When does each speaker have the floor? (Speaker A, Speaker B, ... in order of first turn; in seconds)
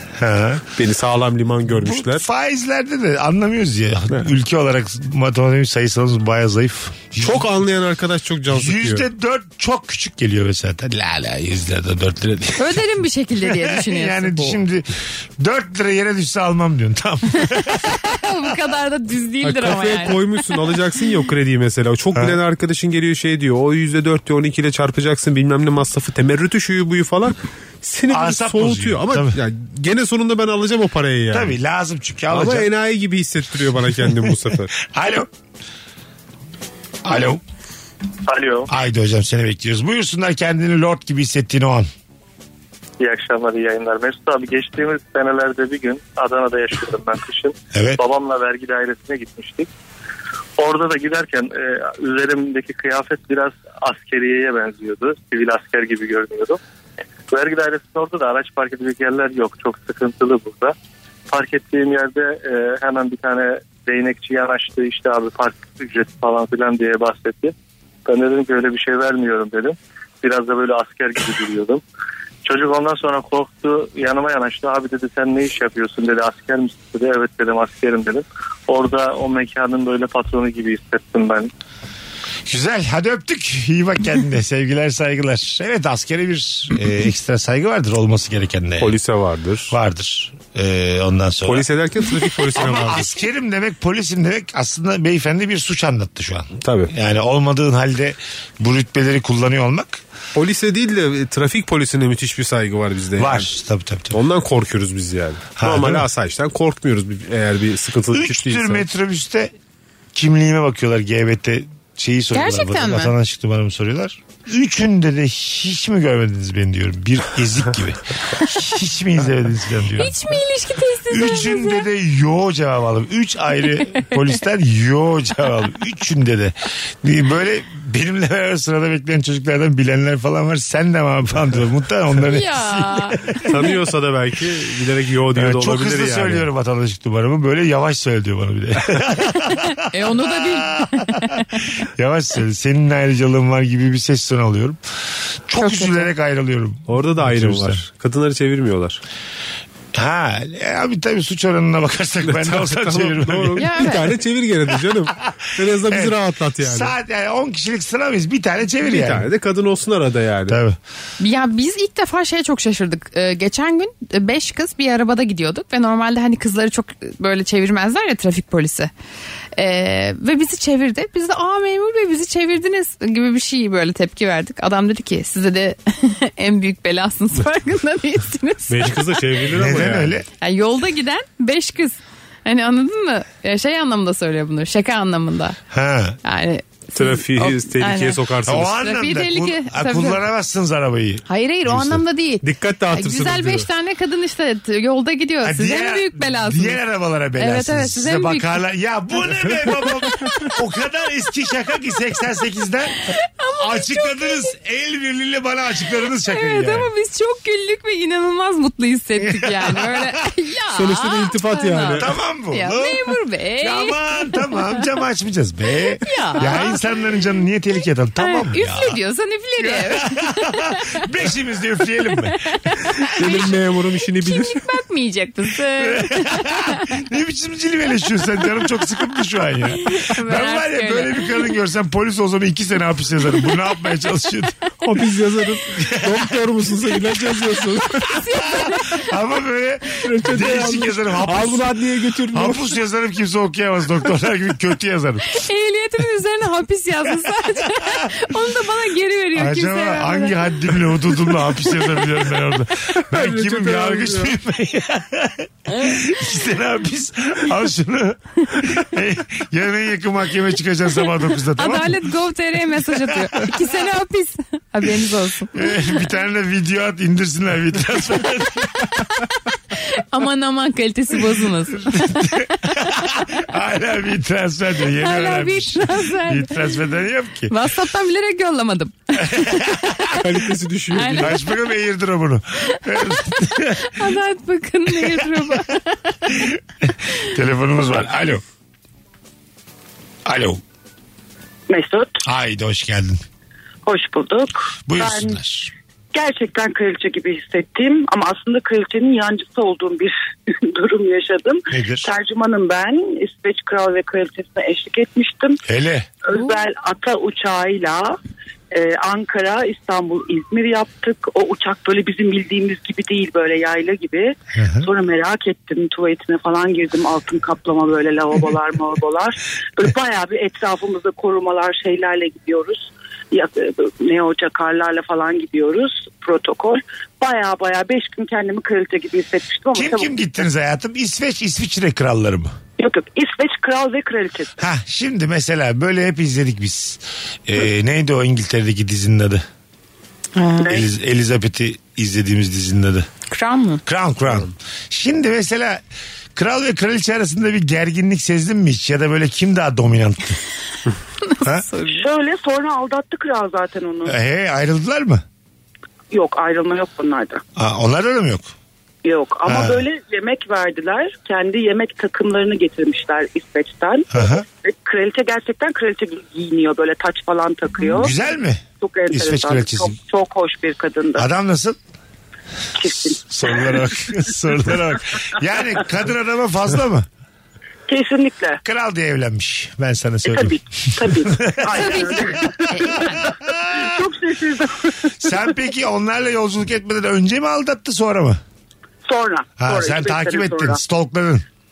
Speaker A: 0.2-0.7, 1.7-7.5, 8.5-12.8, 13.4-18.1, 28.1-29.4, 31.3-32.7, 34.8-35.3, 37.0-37.4, 38.7-41.9, 47.7-48.0, 82.5-89.0, 89.7-91.7, 92.5-100.0, 103.2-104.2, 105.6-106.1, 108.1-109.5, 110.1-120.4, 121.1-133.6, 135.3-141.1, 141.8-144.8, 145.5-147.8, 149.9-153.8, 155.9-159.3, 160.5-160.8, 179.5-180.3, 185.7-186.2, 188.5-191.2, 195.4-206.9, 209.3-210.1, 212.0-219.0, 219.6-222.4, 225.8-234.6, 235.8-236.2, 238.5-241.7, 242.3-245.4, 249.3-262.0, 265.5-269.0, 271.8-277.5, 279.4-279.8, 281.2-284.0, 286.4-288.4, 290.2-290.6, 292.2-293.2, 294.9-295.7, 301.7-302.1, 305.7-306.1, 314.5-314.9, 329.8-332.5, 334.6-339.4, 340.7-343.1, 343.9-345.8, 346.4-350.4, 351.4-351.7, 354.1-355.2, 357.6-358.5, 359.5-359.8, 364.1-364.4, 367.9-369.9, 371.2-371.8, 373.1-377.1, 378.6-384.0, 385.2-388.4, 389.6-391.4
Speaker B: 0.8-2.2, 7.2-9.1, 19.4-31.6, 32.3-34.7, 88.8-89.8, 91.5-93.2, 96.6-96.9, 100.3-103.5, 104.1-108.9, 133.5-136.5, 146.9-149.0, 152.2-156.9, 158.8-160.6, 178.7-180.2, 186.9-188.8, 191.7-193.7, 210.7-212.2, 223.1-224.7, 234.8-238.2, 240.0-242.8, 253.1-254.4, 280.2-281.4
Speaker C: 12.6-14.6, 17.7-20.6, 112.3-113.1, 120.0-121.9, 132.3-133.7, 139.9-141.6, 145.6-146.1, 153.6-154.1, 161.2-168.9, 169.6-179.2, 180.4-185.6, 186.2-190.2, 191.3-196.8, 197.4-198.6, 200.0-200.6, 203.0-204.5, 206.1-214.8, 216.0-216.8, 218.2-220.8, 222.5-223.6, 224.2-227.0, 229.8-231.3, 238.0-239.1, 245.3-250.4, 261.6-265.8, 269.7-272.4, 275.0-276.6, 277.5-280.2, 280.9-281.4, 282.7-286.5, 340.4-340.7, 343.3-343.8, 351.2-352.1, 381.7-383.3
Speaker D: 38.3-38.7, 43.0-49.7, 50.6-56.6, 57.3-60.8, 61.3-71.8, 72.5-81.5
Speaker E: 291.7-292.2, 293.9-295.4, 296.1-305.6, 306.2-308.2, 308.7-330.2, 332.8-334.5, 340.6-340.9, 351.9-354.2, 356.1-357.4, 359.0-368.2, 368.8-371.3, 372.8-373.9, 377.9-378.6, 380.2-385.4, 389.1-390.8